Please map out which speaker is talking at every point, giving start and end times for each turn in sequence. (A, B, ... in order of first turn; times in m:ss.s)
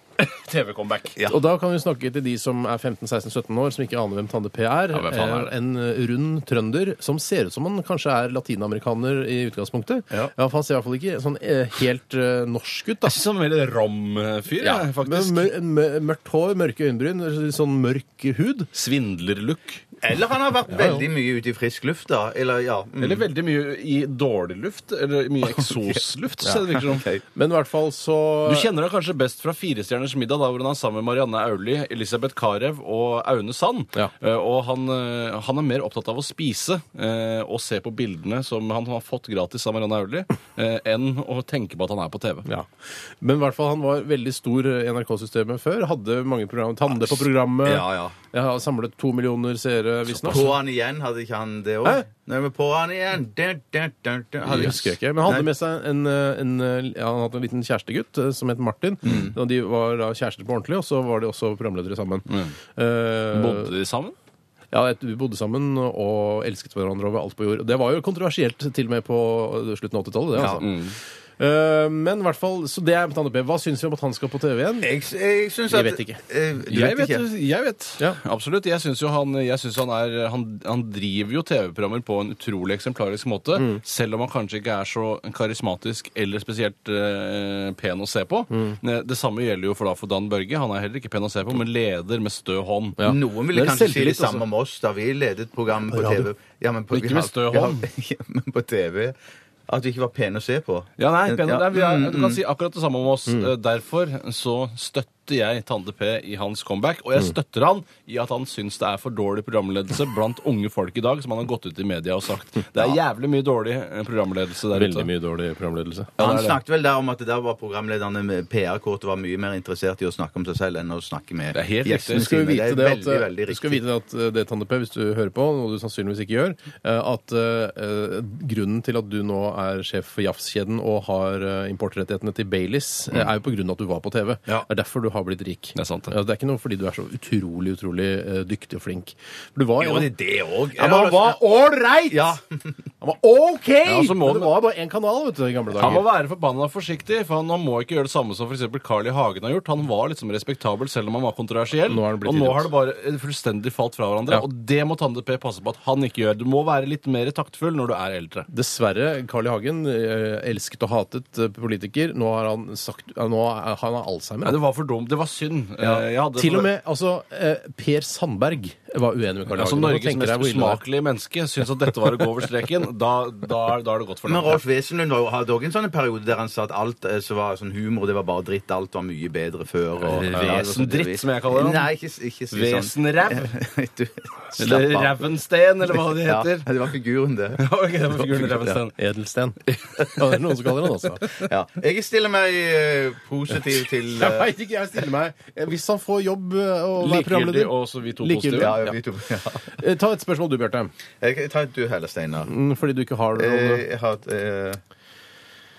0:00.2-0:01.2 A
0:01.3-0:13.2 B
0:04.9-0:05.5 A
0:13.0-0:15.5 A
0:14.6-0:18.7 B
0:18.7-0:19.8 A
0:20.0-0:23.3 C
0:20.7-0:21.0 B
0:23.0-0:27.1 A
0:26.9-0:27.2 C
0:27.3-0:28.7 B
0:28.4-0:42.4 A
0:43.2-0:50.6 B
0:47.6-0:48.1 C
0:50.2-0:55.5 C
0:54.4-1:03.7 B
0:59.0-0:59.3 C
1:02.3-1:02.5 A
1:03.3-1:04.2 A
1:04.7-1:10.7 B
1:10.4-1:10.6 C
1:10.6-1:11.0 A
1:11.4-1:14.9 B
1:14.8-1:17.2 C
1:15.7-1:16.2 B
1:16.7-1:33.0 A
1:23.5-1:23.8 B
1:28.5-1:28.8 B
1:33.0-1:34.4 B
1:33.0-1:39.2 C
1:35.9-1:36.3 B
1:36.9-1:37.8 A
1:39.7-1:42.4 C
1:41.0-1:55.1 A
1:54.7-1:56.1 B
1:56.2-1:56.6 A
1:56.2-2:03.8 C
2:01.5-2:02.3 A
2:02.1-2:20.1 B
2:15.8-2:16.1 A
2:19.8-2:21.4 C
2:20.8-2:22.3 B
2:22.1-2:22.7 C
2:23.0-2:26.1 B
2:23.8-2:24.5 A
2:25.8-2:38.5 A
2:31.8-2:32.7 B
2:38.5-2:44.6 B
2:44.4-2:46.7 A
2:45.8-2:50.8 B
2:49.5-2:54.6 A
2:54.2-3:05.3 C
3:00.1-3:00.8 B
3:00.2-3:01.9 A
3:02.5-3:03.5 A
3:04.6-3:06.7 A
3:05.9-3:07.6 C
3:07.6-3:08.9 A
3:08.3-3:08.6 C
3:08.9-3:09.6 B
3:09.7-3:10.1 A
3:10.1-3:11.3 B
3:11.3-3:14.5 C
3:14.2-3:18.9 B
3:17.0-3:18.9 A
3:18.6-3:19.7 C
3:19.8-3:20.9 B
3:21.2-3:22.5 C
3:22.5-3:23.8 B
3:23.3-3:24.8 C